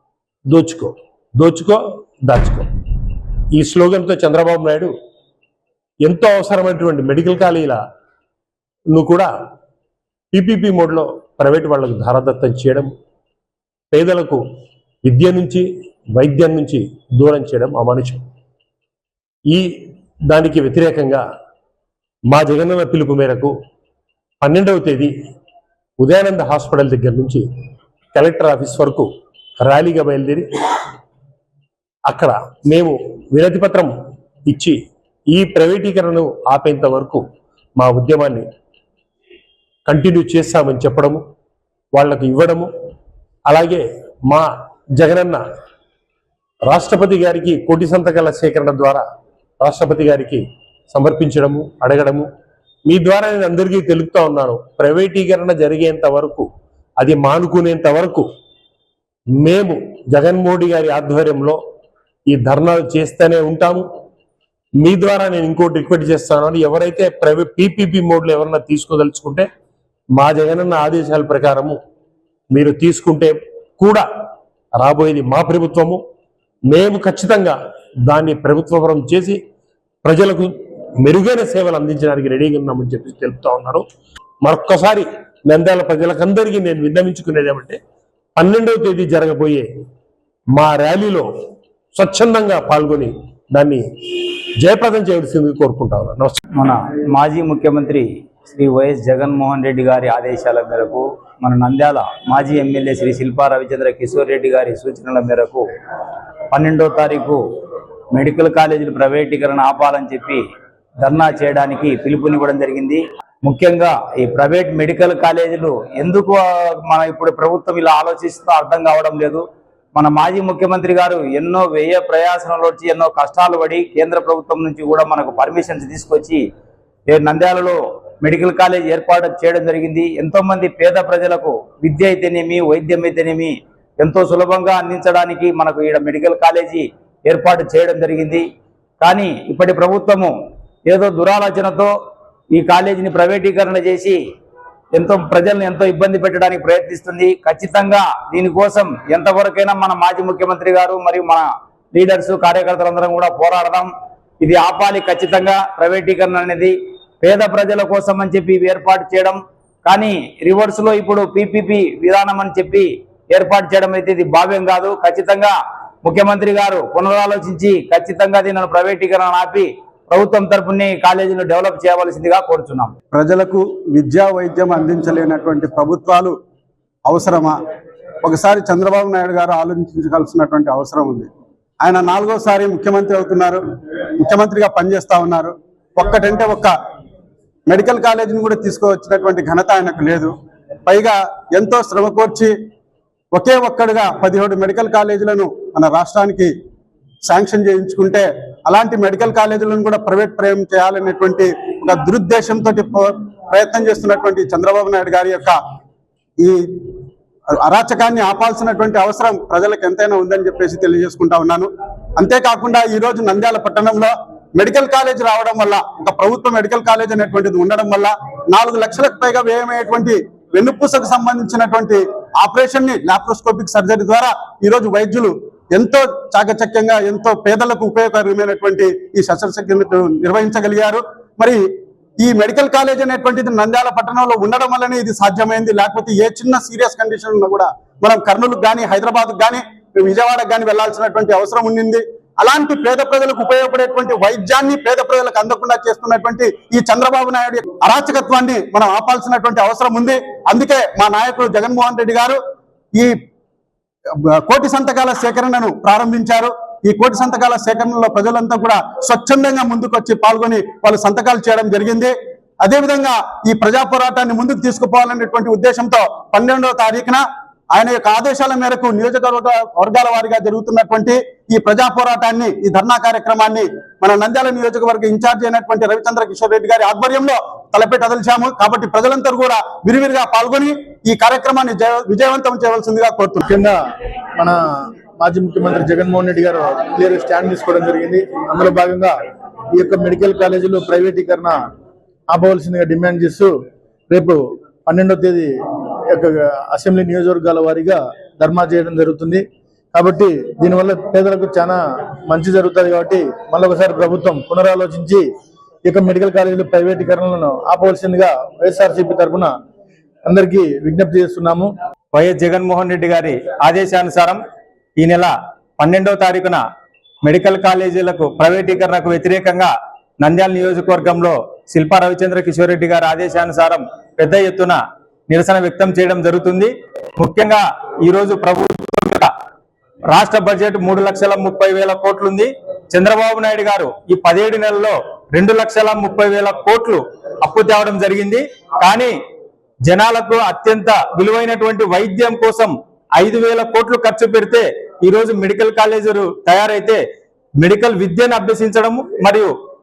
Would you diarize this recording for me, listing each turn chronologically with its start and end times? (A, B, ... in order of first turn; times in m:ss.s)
0:00.5-0:02.7 A
0:03.5-0:04.9 A
0:06.0-0:07.8 A
0:08.9-0:09.3 A
0:10.3-0:12.9 A
0:13.9-0:14.4 A
0:15.0-0:15.6 A
0:16.2-0:18.2 A
0:20.3-0:21.2 A
0:22.3-0:23.5 A
0:24.4-0:25.1 A
0:26.0-0:27.4 A
0:28.1-0:29.1 A
0:29.6-0:30.8 A
0:32.1-0:33.9 A
0:34.5-0:34.7 A
0:35.3-0:37.2 A
0:37.8-0:38.4 A
0:39.8-0:41.2 A
0:41.9-0:42.7 A
0:43.4-0:44.4 A
0:45.0-0:45.4 A
0:46.6-0:49.0 A
0:49.6-0:52.3 A
0:52.9-0:56.4 A
0:57.0-0:58.3 A
0:59.4-1:01.6 A
1:02.3-1:03.8 A
1:04.8-1:09.5 A
1:10.2-1:11.8 A
1:12.5-1:14.0 A
1:14.8-1:16.0 A
1:16.7-1:19.4 A
1:20.0-1:23.8 A
1:24.4-1:27.8 A
1:28.4-1:29.6 A
1:30.5-1:31.2 A
1:31.9-1:36.4 A
1:36.6-1:45.6 B
1:46.5-1:47.4 B
1:48.1-1:50.4 B
1:51.0-1:59.4 B
2:00.0-2:06.4 B
2:07.1-2:18.4 B
2:19.0-2:20.3 B
2:20.9-2:21.9 B
2:22.5-2:24.2 B
2:24.9-2:33.9 B
2:34.4-2:52.9 B
2:53.1-2:56.3 C
2:57.0-2:57.6 C
2:58.2-3:01.3 C
3:01.8-3:03.6 C
3:04.2-3:06.7 C
3:07.7-3:10.3 C
3:10.9-3:12.5 C
3:13.3-3:16.5 C
3:17.2-3:25.6 C
3:27.7-3:51.6 C
3:52.2-4:12.4 C
4:14.4-4:43.4 C
4:43.4-4:43.8 D
4:45.2-4:49.2 D
4:49.7-4:51.6 D
4:52.3-4:53.6 D
4:54.1-4:55.5 D
4:56.1-5:05.3 D
5:05.8-5:09.5 D
5:10.2-5:11.7 D
5:12.2-5:14.2 E
5:13.3-5:14.4 B
5:15.0-5:16.6 E
5:17.2-5:24.8 E
5:20.6-5:21.3 B
5:21.8-5:23.8 B
5:25.3-5:29.3 E
5:30.1-5:31.0 B
5:30.8-5:39.2 E
5:39.9-5:40.9 B
5:39.9-5:42.6 E
5:43.2-5:47.0 E
5:47.6-5:47.9 B
5:47.6-5:49.5 E
5:48.5-5:49.4 B